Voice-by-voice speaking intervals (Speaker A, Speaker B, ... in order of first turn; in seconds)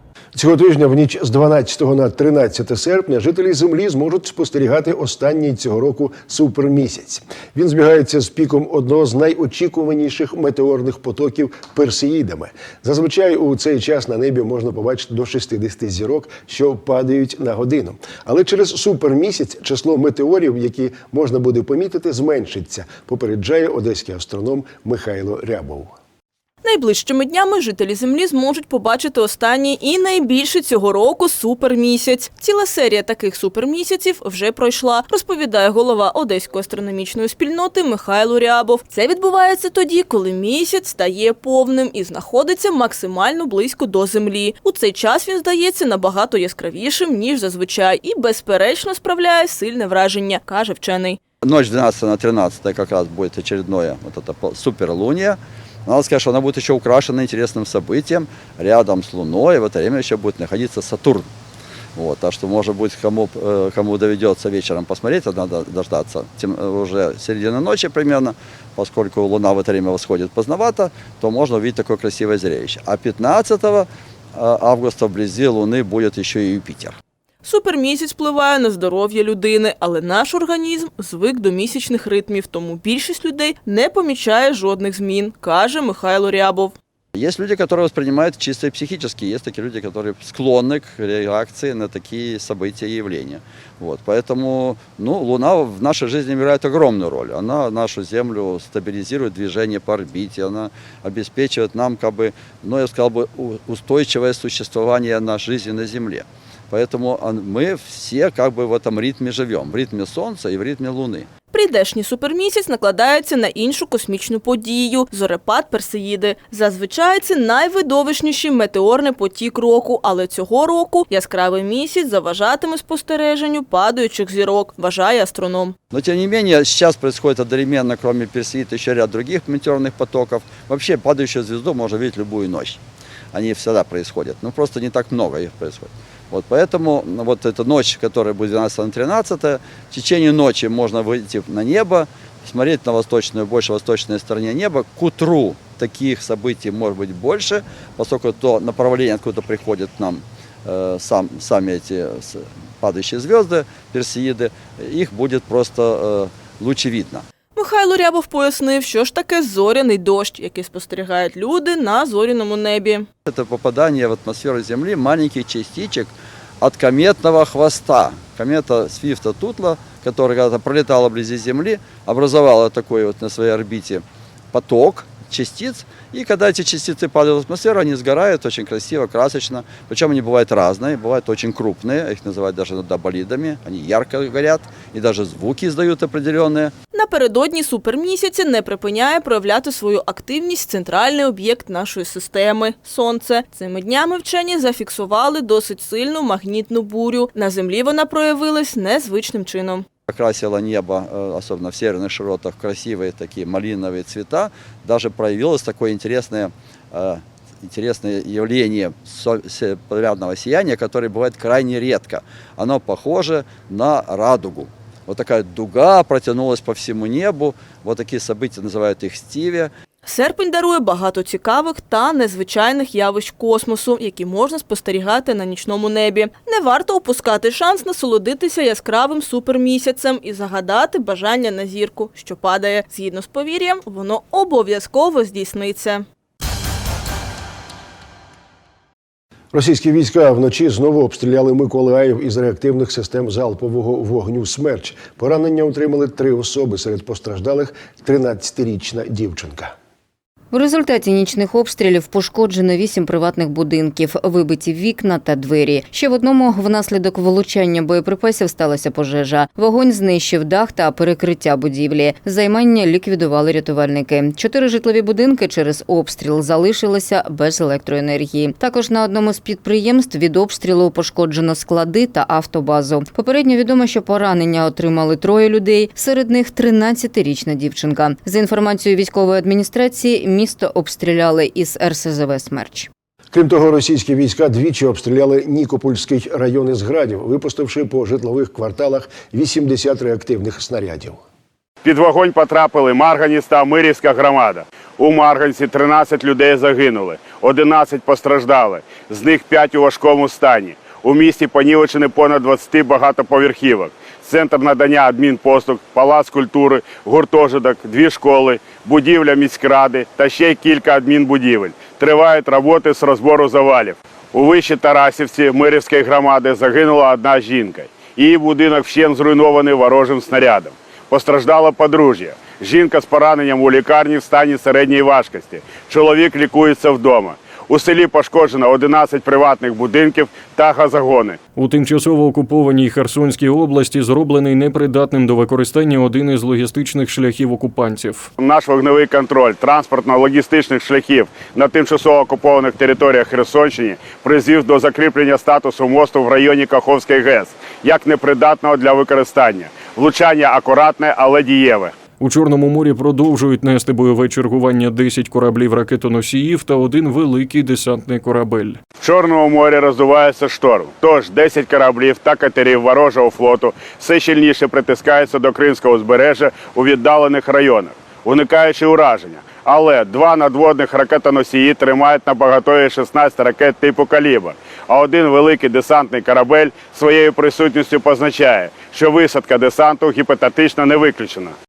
Speaker A: 0.3-25.9, 239.5-249.7, 283.3-291.2
Speaker B: 26.6-51.2, 77.4-86.7, 111.5-125.8, 157.6-163.1, 186.9-199.9, 220.1-236.1
Speaker C: 51.4-61.3, 62.0-77.0, 87.1-111.3, 125.9-132.8, 133.3-157.2, 163.3-186.7, 200.1-219.7
Speaker D: 250.5-282.9
Speaker E: 291.8-331.4, 338.4-351.9, 359.0-381.6
Speaker F: 331.6-338.3, 352.2-358.8